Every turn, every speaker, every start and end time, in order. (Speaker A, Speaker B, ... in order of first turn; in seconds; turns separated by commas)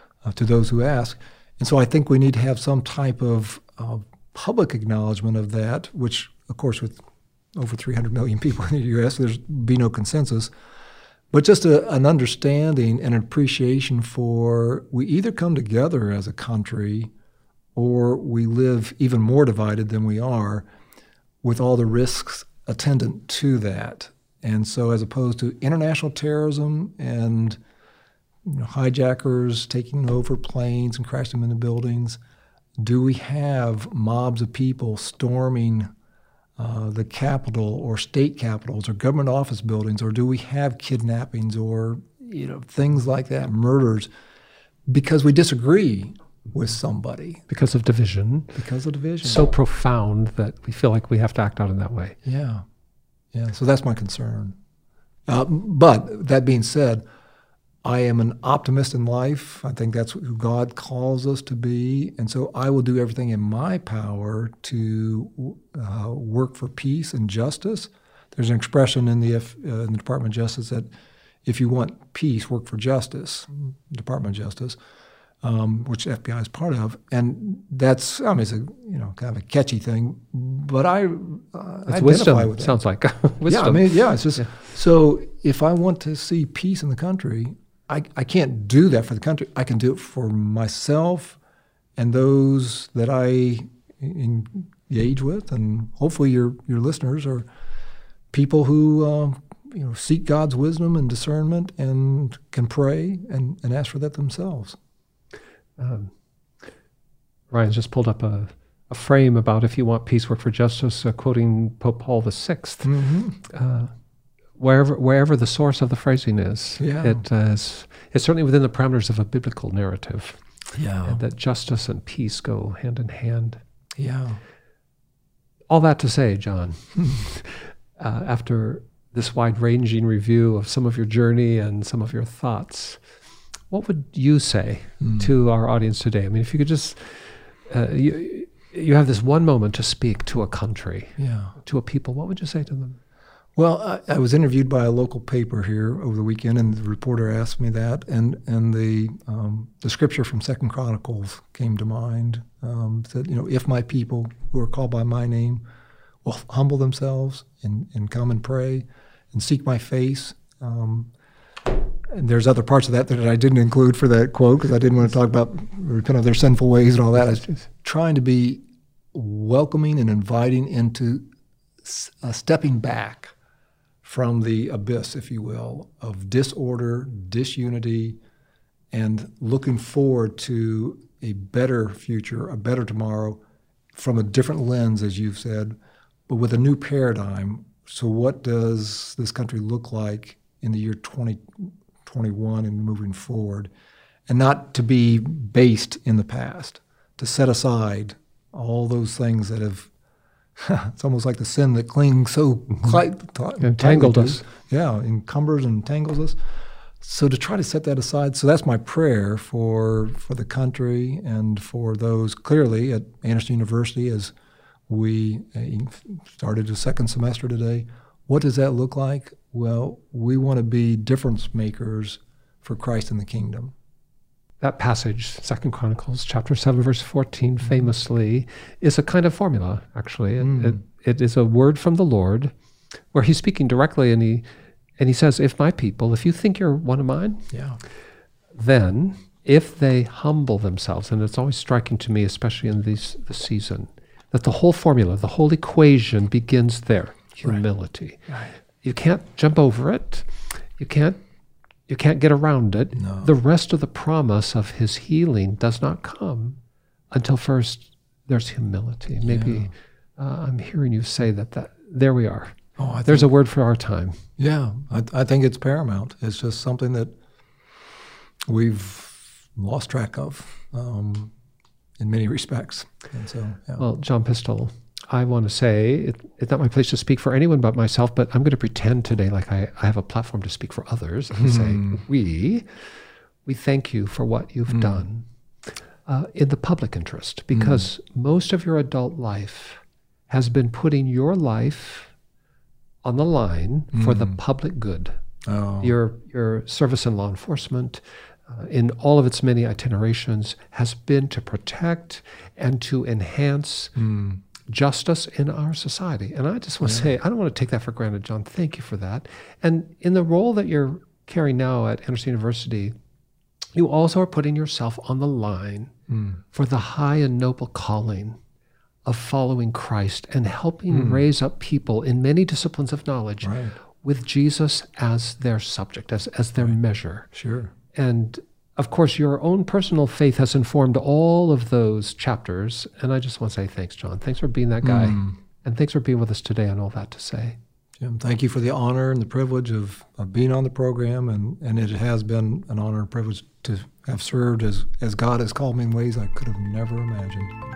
Speaker A: 0.2-7.0, Speaker A: 7.5-10.5, Speaker A: 11.3-17.1, Speaker A: 17.7-20.6, Speaker A: 21.4-27.6, Speaker A: 28.4-32.2, Speaker A: 32.8-35.9, Speaker A: 36.6-44.1, Speaker A: 44.9-47.4, Speaker B: 47.5-48.5, Speaker A: 48.5-49.5, Speaker B: 49.2-52.2, Speaker A: 52.2-52.6, Speaker A: 53.3-54.5, Speaker A: 55.3-57.0, Speaker A: 57.8-70.9, Speaker A: 71.4-74.8, Speaker A: 75.4-82.8, Speaker B: 81.9-84.5, Speaker A: 83.5-91.4, Speaker A: 92.0-97.5, Speaker A: 98.3-104.8, Speaker B: 105.8-106.1, Speaker B: 107.5-112.9, Speaker A: 112.8-113.4, Speaker B: 113.5-113.9, Speaker B: 114.6-120.4, Speaker A: 116.8-117.2, Speaker A: 120.7-121.2, Speaker B: 121.0-123.6, Speaker A: 124.0-124.4, Speaker B: 125.7-133.0, Speaker B: 133.7-143.0, Speaker A: 135.0-135.3, Speaker A: 141.2-141.5, Speaker A: 143.6-155.6, Speaker A: 156.2-161.1, Speaker A: 162.1-171.2, Speaker A: 171.8-173.3, Speaker A: 174.0-178.2, Speaker A: 178.9-183.4, Speaker A: 183.9-185.8, Speaker A: 186.3-193.7, Speaker A: 194.3-199.9, Speaker A: 200.6-206.4, Speaker B: 203.6-204.4, Speaker A: 207.0-214.3, Speaker A: 214.9-223.7, Speaker B: 224.6-232.5, Speaker A: 230.4-230.8, Speaker B: 233.1-234.4, Speaker B: 235.0-237.5, Speaker A: 237.5-237.8, Speaker B: 238.5-251.2, Speaker B: 251.9-256.6, Speaker A: 252.9-253.3, Speaker B: 257.1-264.2, Speaker A: 259.2-259.7, Speaker A: 262.8-263.3, Speaker A: 264.4-267.1, Speaker A: 268.4-271.3, Speaker A: 272.0-273.8, Speaker B: 273.8-282.7, Speaker A: 281.4-282.0, Speaker B: 283.4-285.3, Speaker A: 284.7-285.0, Speaker B: 286.1-292.1, Speaker A: 287.5-287.9, Speaker B: 293.0-295.2, Speaker A: 293.9-294.4, Speaker A: 295.4-295.9, Speaker B: 295.8-303.9, Speaker A: 303.9-304.4, Speaker B: 304.7-312.9, Speaker A: 306.8-307.1, Speaker B: 313.8-315.9, Speaker A: 316.1-316.4, Speaker B: 316.5-318.4, Speaker B: 319.1-327.3, Speaker A: 320.9-321.2, Speaker A: 323.4-323.7, Speaker A: 327.3-327.7, Speaker B: 327.9-337.6, Speaker A: 334.8-335.3, Speaker A: 338.0-347.5